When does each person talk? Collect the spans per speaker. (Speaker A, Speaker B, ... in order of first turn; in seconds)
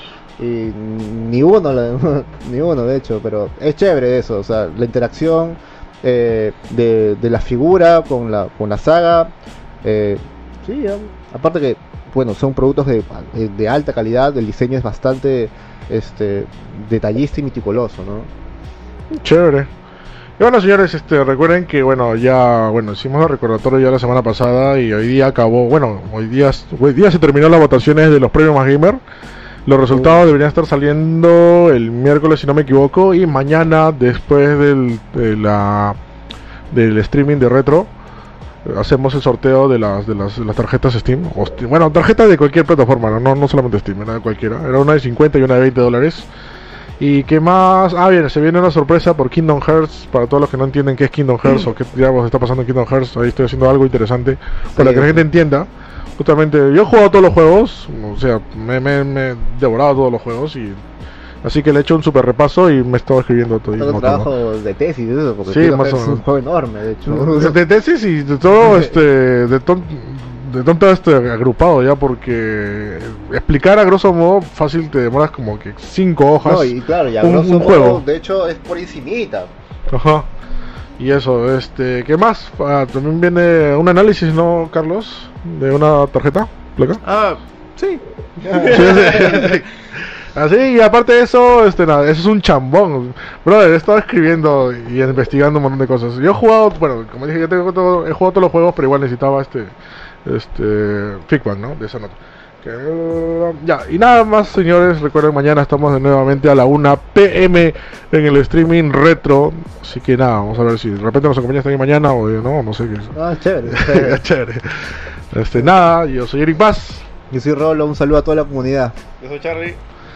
Speaker A: 0.4-9.3, 9.8-18.3, 29.9-30.2, 54.8-55.2, 63.8-67.6, 76.4-79.5, 88.5-89.3, 113.2-114.2, 117.3-119.0
Speaker B: 19.1-19.7, 20.4-29.0, 29.7-36.0, 36.7-37.9, 38.6-46.3, 47.0-60.8, 61.4-64.3, 65.5-66.2, 67.1-78.0, 79.9-80.3, 81.0-87.0, 88.5-89.7, 90.3-99.7, 100.2-113.2, 113.7-117.1
Speaker C: 87.0-89.6, 119.2-119.8